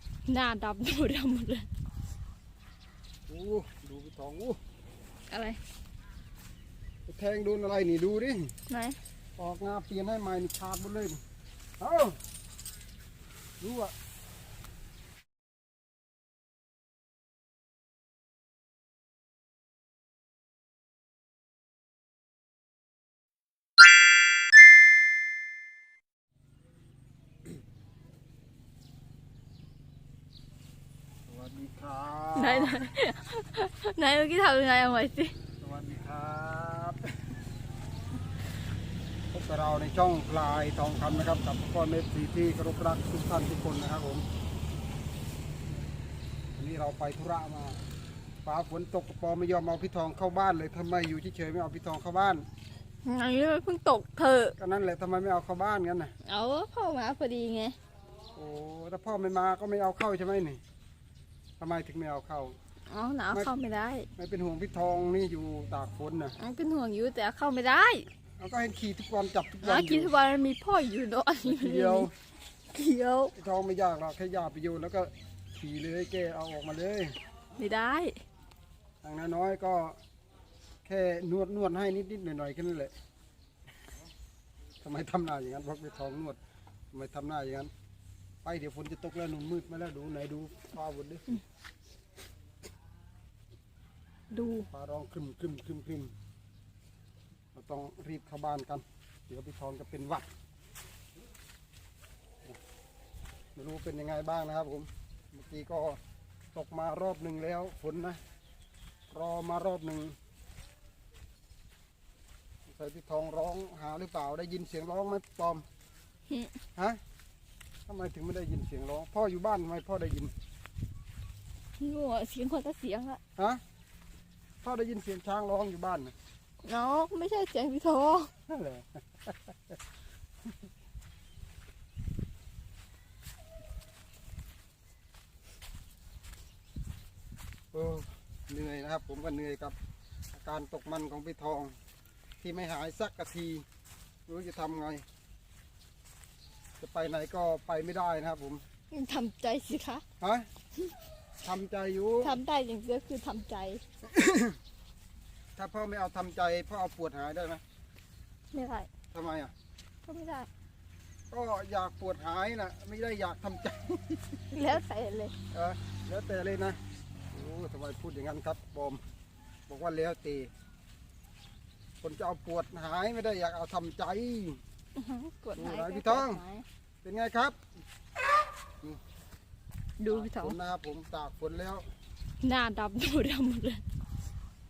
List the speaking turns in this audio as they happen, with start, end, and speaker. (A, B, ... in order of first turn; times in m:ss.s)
0:00.3-0:01.7 A
0:03.3-0:04.6 B
0:05.3-0:05.6 A
0:07.1-0:08.5 B
0:08.7-0:09.0 A
0:09.4-0:11.2 B
0:11.8-0:12.2 B
0:13.6-0:13.9 B
0:31.3-0:32.7 B
0:32.3-0:35.3 A
0:35.6-0:37.0 B
0:39.3-0:44.2 B
0:46.6-0:47.8 B
0:48.4-0:52.4 B
0:53.0-0:54.5 A
0:54.6-0:56.1 B
0:56.2-0:57.7 A
0:58.4-1:00.6 B
1:01.6-1:02.6 B
1:02.9-1:04.1 A
1:04.2-1:06.4 B
1:06.4-1:08.1 A
1:08.4-1:10.1 B
1:09.6-1:12.1 A
1:11.4-1:12.1 B
1:12.7-1:13.3 A
1:13.4-1:17.1 B
1:17.6-1:18.2 A
1:19.0-1:20.0 B
1:20.8-1:22.9 B
1:24.8-1:26.4 B
1:26.9-1:27.7 B
1:28.4-1:31.4 B
1:34.3-1:34.7 A
1:34.7-1:36.1 B
1:37.5-1:40.3 B
1:43.6-1:46.0 B
1:46.5-1:48.2 B
1:49.1-1:50.2 B
1:52.7-1:55.6 B
1:56.3-1:56.5 A
1:57.9-2:00.3 B
2:01.8-2:03.2 A
2:04.6-2:06.1 B
2:06.6-2:08.3 A
2:08.5-2:09.8 B
2:17.7-2:19.8 B
2:20.3-2:21.8 B
2:22.4-2:23.6 B
2:24.3-2:25.0 B
2:26.8-2:28.6 B
2:28.9-2:30.0 A
2:30.2-2:30.5 B
2:31.4-2:32.4 B
2:32.2-2:33.8 A
2:34.0-2:34.6 B
2:35.6-2:37.6 B
2:38.5-2:38.9 A
2:39.1-2:39.5 B
2:40.0-2:40.5 A
2:41.3-2:44.8 B
2:44.5-2:45.3 A
2:45.5-2:46.8 B
2:47.3-2:49.0 B
2:49.7-2:50.5 B
2:52.0-2:54.6 B
2:54.9-2:56.6 A
2:55.6-2:56.4 B
2:57.0-2:57.6 B
3:00.0-3:00.6 A
3:00.1-3:01.8 B
3:02.4-3:03.8 A